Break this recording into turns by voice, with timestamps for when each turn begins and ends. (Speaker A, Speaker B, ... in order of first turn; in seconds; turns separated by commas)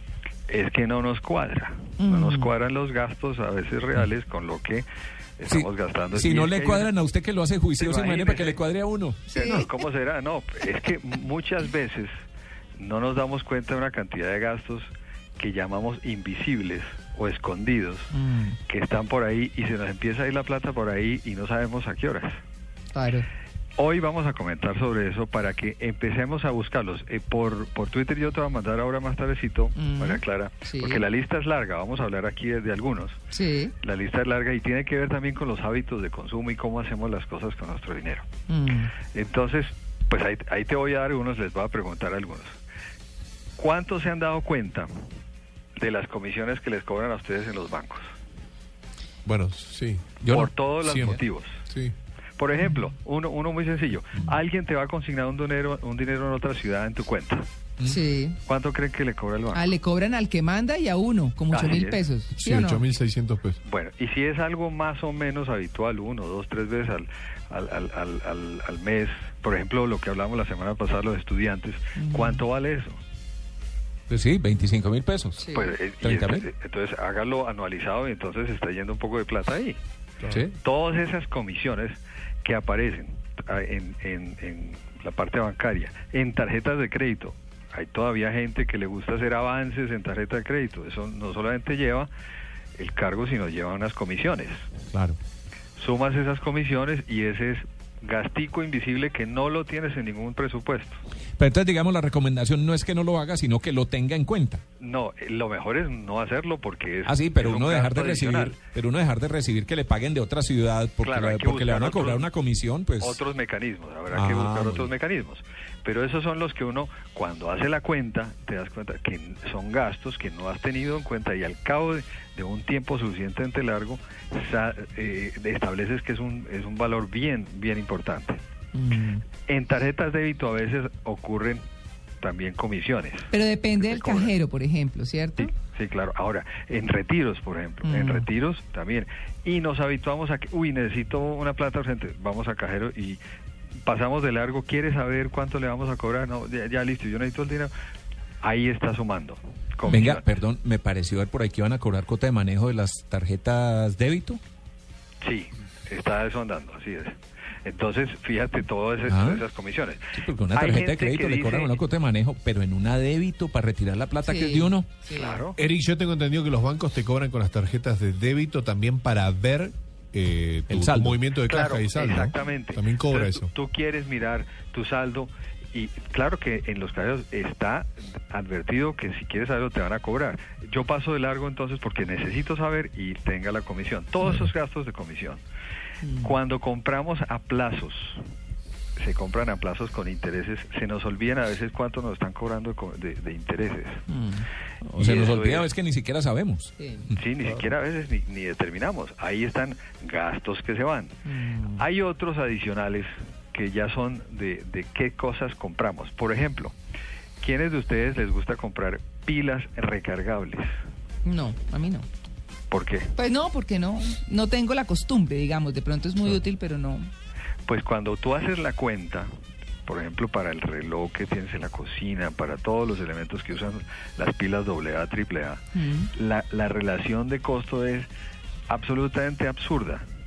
Speaker A: 0.5-4.9, Speaker B: 2.0-2.5, Speaker A: 5.4-6.9, Speaker C: 5.5-9.2, Speaker A: 7.8-8.6, Speaker B: 9.3-9.7, Speaker A: 9.3-12.1, Speaker A: 12.8-18.1, Speaker B: 18.1-18.6, Speaker A: 18.7-22.3, Speaker B: 22.9-23.3, Speaker A: 23.8-33.2, Speaker B: 29.8-31.0, Speaker B: 33.3-33.7, Speaker A: 33.8-38.3, Speaker B: 38.5-38.9, Speaker A: 39.1-42.6, Speaker A: 43.6-44.9, Speaker A: 45.8-48.1, Speaker D: 49.3-50.3, Speaker C: 50.2-50.6, Speaker A: 50.3-51.6, Speaker D: 50.8-51.9, Speaker A: 52.4-57.5, Speaker B: 57.8-58.4, Speaker A: 58.4-59.7, Speaker B: 59.5-62.9, Speaker A: 61.5-62.1, Speaker D: 62.3-63.6, Speaker A: 63.6-73.0, Speaker B: 72.0-72.4, Speaker C: 74.1-75.5, Speaker B: 75.4-75.8, Speaker A: 75.5-79.8, Speaker C: 76.0-76.5, Speaker A: 80.6-92.1, Speaker A: 92.8-94.7, Speaker A: 95.8-101.0, Speaker C: 101.4-104.6, Speaker A: 104.8-108.6, Speaker C: 107.1-113.2, Speaker A: 111.0-112.3, Speaker A: 113.0-128.4, Speaker C: 114.1-114.9, Speaker B: 128.7-129.2, Speaker A: 129.5-131.6, Speaker A: 132.2-134.3, Speaker B: 133.3-135.5, Speaker A: 135.4-143.2, Speaker B: 137.8-138.3, Speaker A: 143.9-147.7, Speaker A: 148.4-150.2, Speaker C: 149.9-154.4, Speaker A: 155.2-161.8, Speaker C: 159.1-159.4, Speaker C: 160.1-165.0, Speaker B: 164.2-165.4, Speaker A: 165.1-165.6, Speaker D: 165.6-173.5, Speaker C: 170.7-171.2, Speaker A: 171.5-185.4, Speaker B: 186.0-186.3, Speaker A: 186.2-188.2, Speaker A: 189.0-194.0, Speaker B: 194.1-194.5, Speaker C: 194.9-196.7, Speaker A: 194.9-195.7, Speaker B: 196.8-197.1, Speaker A: 197.2-201.2, Speaker B: 201.3-201.8, Speaker A: 201.8-206.7, Speaker A: 207.4-210.7, Speaker B: 211.2-212.1, Speaker A: 212.7-213.1, Speaker B: 213.2-217.1, Speaker A: 217.7-219.3, Speaker A: 219.9-225.6, Speaker B: 225.8-226.1, Speaker A: 226.1-228.1, Speaker A: 228.7-230.0